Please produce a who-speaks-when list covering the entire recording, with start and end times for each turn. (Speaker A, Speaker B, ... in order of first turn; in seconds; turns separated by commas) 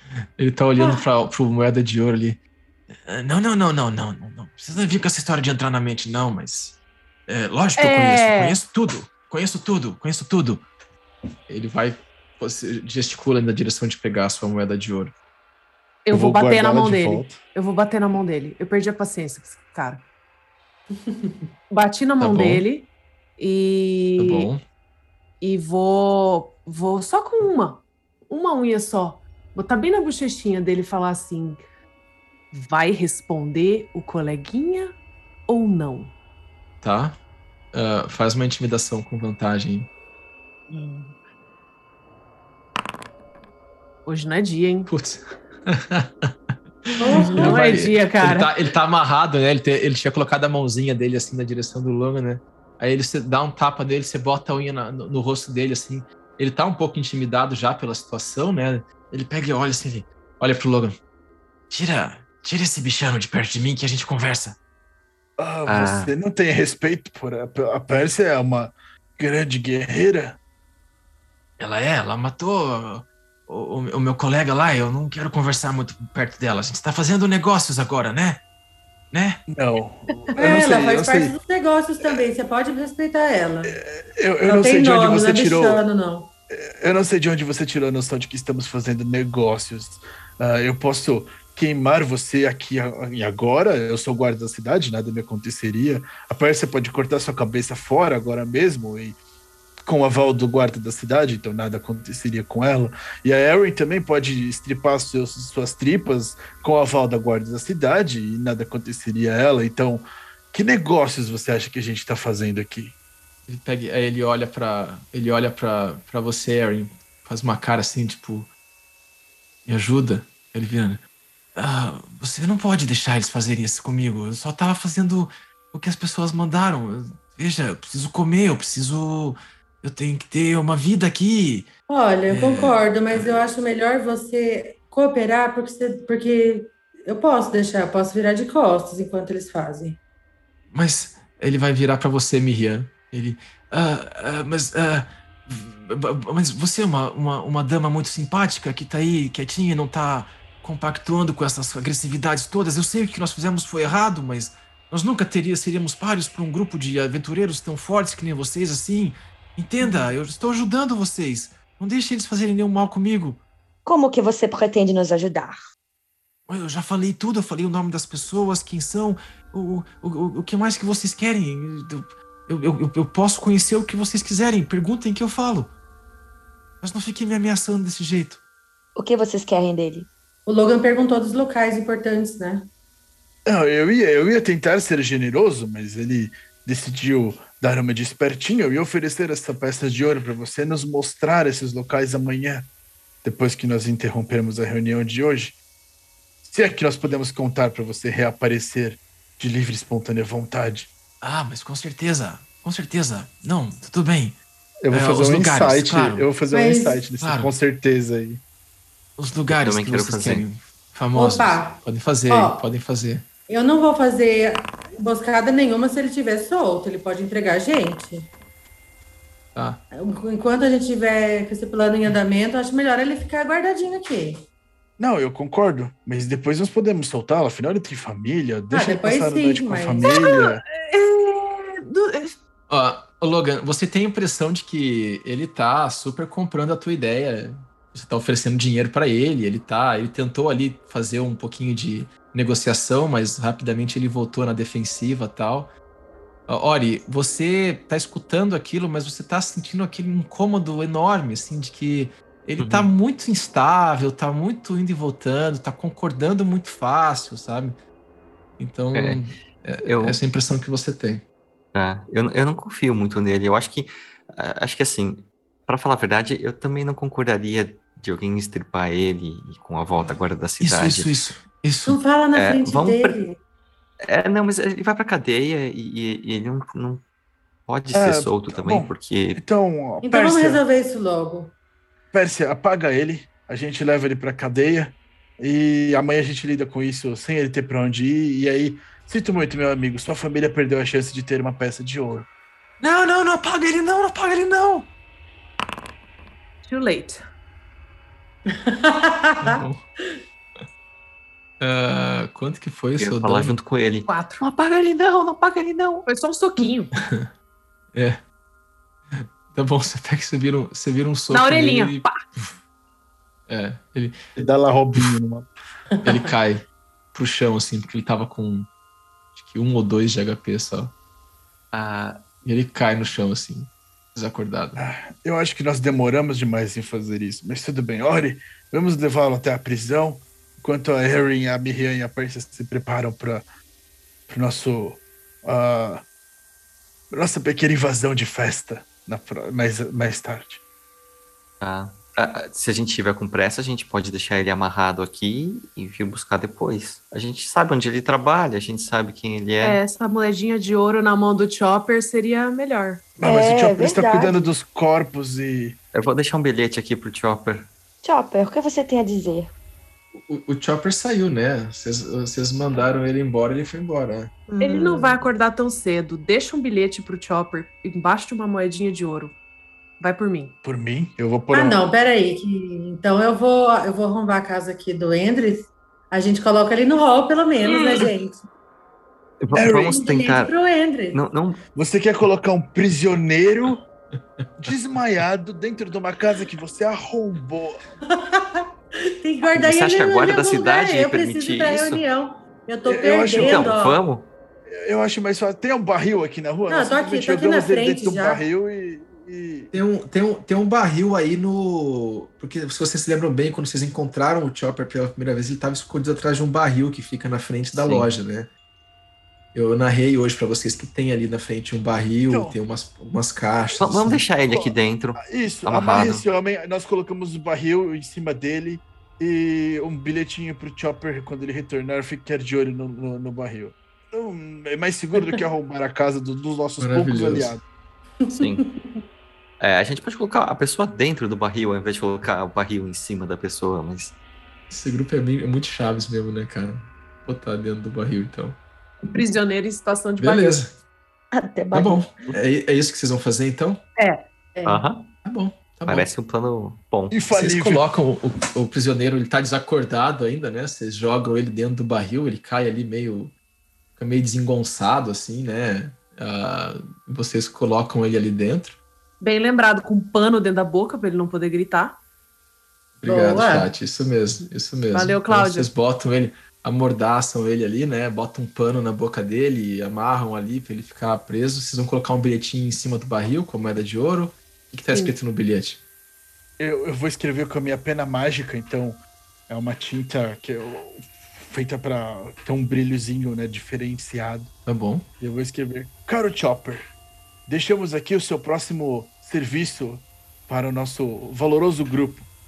Speaker A: 0.4-2.4, Speaker A: 3.1-10.6, Speaker B: 7.8-8.6, Speaker A: 11.5-15.1, Speaker B: 16.0-20.0, Speaker C: 16.1-17.4, Speaker D: 20.9-21.4, Speaker B: 21.7-24.5, Speaker A: 22.2-22.6, Speaker A: 24.2-24.6, Speaker B: 25.4-31.6, Speaker B: 32.5-34.9, Speaker B: 35.5-36.1, Speaker A: 36.8-37.2, Speaker A: 37.7-39.9, Speaker B: 40.7-41.2, Speaker B: 44.0-44.9, Speaker A: 44.9-61.0, Speaker D: 47.0-47.8, Speaker B: 47.1-48.5, Speaker A: 61.7-64.6, Speaker C: 65.4-70.4, Speaker E: 65.7-66.1, Speaker A: 71.6-78.4, Speaker A: 79.1-79.4, Speaker C: 79.5-81.3, Speaker D: 80.4-83.8, Speaker C: 83.7-85.8, Speaker D: 84.5-86.3, Speaker C: 86.5-99.2, Speaker C: 99.8-112.9, Speaker A: 113.5-118.5, Speaker A: 119.7-121.0, Speaker A: 121.5-131.7, Speaker D: 131.9-140.0, Speaker A: 132.3-133.3, Speaker A: 140.7-163.4, Speaker F: 163.8-165.6, Speaker A: 166.5-175.7, Speaker A: 176.8-178.4, Speaker F: 178.9-180.1, Speaker D: 180.4-182.7, Speaker C: 183.4-192.7, Speaker C: 193.2-195.6, Speaker C: 196.4-200.9, Speaker A: 201.2-204.4, Speaker C: 204.8-208.4, Speaker A: 204.9-206.3, Speaker D: 206.5-207.0, Speaker A: 207.2-207.5, Speaker A: 209.2-213.2, Speaker E: 209.5-210.4, Speaker D: 211.1-212.6, Speaker D: 213.5-218.3, Speaker A: 219.5-219.8, Speaker D: 219.9-224.4, Speaker C: 225.0-230.6, Speaker D: 228.7-230.1, Speaker B: 230.0-232.3, Speaker A: 232.7-245.7, Speaker A: 246.5-257.8, Speaker E: 252.6-252.9, Speaker A: 258.6-261.2, Speaker E: 258.9-259.2, Speaker E: 259.8-260.2, Speaker E: 261.7-271.1, Speaker A: 270.6-272.0, Speaker D: 271.8-273.4, Speaker E: 272.3-273.1, Speaker E: 274.0-277.0, Speaker E: 277.7-279.4, Speaker C: 277.9-280.6, Speaker D: 280.0-281.5, Speaker C: 282.1-292.3, Speaker A: 292.8-294.9, Speaker B: 296.6-297.2, Speaker D: 298.6-300.2, Speaker A: 299.4-299.8, Speaker A: 301.6-303.6, Speaker E: 303.0-306.0, Speaker B: 304.1-304.5, Speaker B: 306.0-306.9, Speaker A: 307.0-307.3, Speaker A: 307.9-308.2, Speaker A: 309.1-312.6, Speaker B: 311.3-312.1, Speaker A: 313.5-314.2, Speaker C: 314.4-315.5, Speaker A: 316.0-318.7, Speaker A: 319.3-320.9, Speaker E: 321.7-322.2, Speaker A: 322.4-324.8, Speaker C: 324.8-333.4, Speaker C: 334.3-336.0, Speaker C: 337.1-340.6, Speaker E: 341.6-349.8, Speaker B: 349.6-353.1, Speaker C: 353.2-355.8, Speaker F: 353.2-354.5, Speaker E: 355.9-357.7, Speaker F: 358.0-359.5, Speaker A: 360.1-364.3, Speaker F: 364.5-365.2, Speaker B: 364.6-369.4, Speaker B: 370.0-370.6, Speaker C: 370.6-371.8, Speaker D: 371.5-378.5, Speaker E: 379.4-380.5, Speaker C: 379.5-379.9, Speaker D: 379.6-381.2, Speaker E: 381.1-381.6, Speaker C: 381.7-383.8, Speaker A: 384.1-385.0, Speaker C: 384.6-387.8, Speaker D: 388.1-388.6, Speaker D: 389.2-394.0, Speaker E: 389.5-392.0, Speaker C: 392.9-393.7, Speaker E: 393.4-394.3, Speaker C: 394.7-399.7, Speaker D: 396.7-398.4, Speaker A: 399.7-408.5, Speaker E: 407.7-408.1, Speaker A: 409.5-414.2, Speaker C: 412.3-412.6, Speaker E: 413.8-416.2, Speaker C: 414.5-427.6, Speaker A: 426.8-427.6, Speaker D: 428.2-429.0, Speaker E: 428.3-428.6, Speaker E: 429.6-434.1, Speaker A: 434.7-438.6, Speaker B: 439.0-440.6, Speaker A: 440.2-440.8, Speaker F: 441.3-442.3, Speaker A: 441.7-443.8, Speaker B: 444.0-444.2, Speaker D: 444.5-444.8, Speaker E: 444.6-445.1, Speaker A: 445.2-446.1, Speaker E: 445.9-447.1, Speaker C: 447.1-447.9, Speaker A: 447.3-453.3, Speaker A: 454.0-458.8, Speaker B: 459.2-462.0, Speaker A: 463.0-475.8, Speaker D: 463.0-463.7, Speaker B: 464.4-465.7, Speaker C: 476.6-484.5, Speaker A: 484.6-485.0, Speaker C: 485.2-486.8, Speaker C: 487.5-492.3